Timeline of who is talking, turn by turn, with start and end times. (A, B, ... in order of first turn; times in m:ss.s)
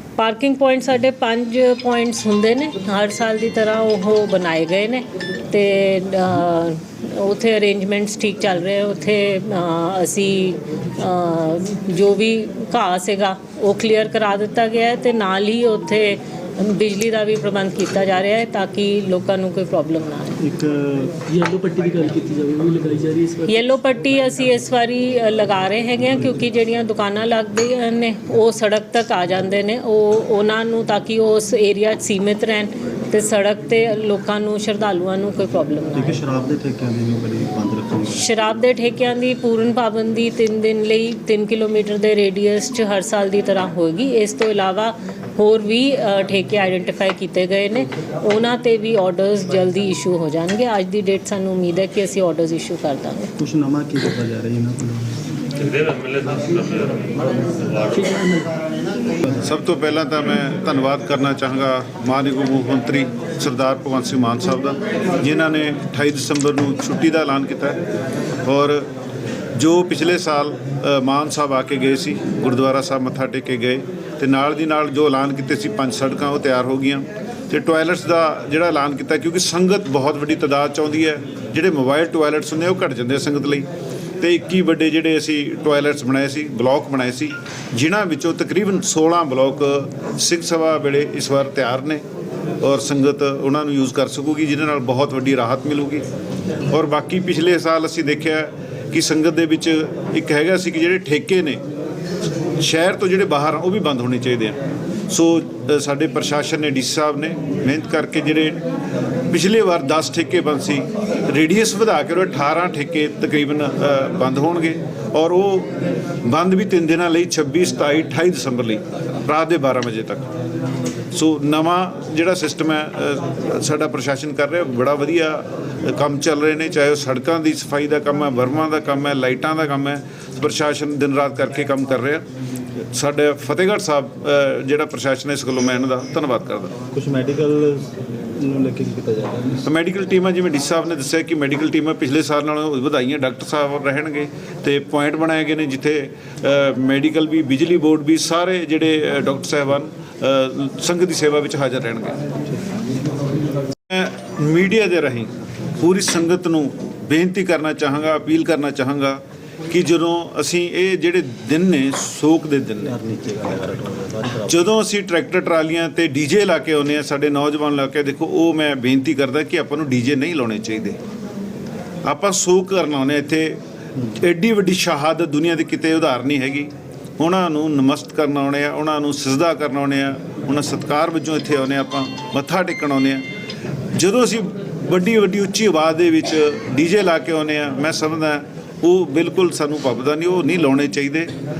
0:00.2-0:20.4 A
0:20.4-0:21.2 B
0:21.2-0:23.5 C
0:23.5-0:36.2 A
0:35.9-0:38.3 B
0:38.1-0:53.3 A
0:53.4-0:55.2 B
0:55.7-0:56.9 C
0:57.6-0:58.6 C
0:59.4-1:07.8 D
1:08.4-1:08.9 D
1:09.5-1:23.7 D
1:24.2-1:32.0 D
1:32.6-1:36.0 D
1:36.7-1:41.6 D
1:42.6-1:48.6 D
1:49.3-2:00.3 D
2:01.1-2:12.2 D
2:12.8-2:16.8 D
2:16.9-2:19.6 B
2:19.6-2:32.2 D
2:33.9-2:42.9 D
2:42.8-2:44.7 B
2:44.4-2:51.0 D
2:52.0-3:03.2 D
3:03.9-3:11.3 D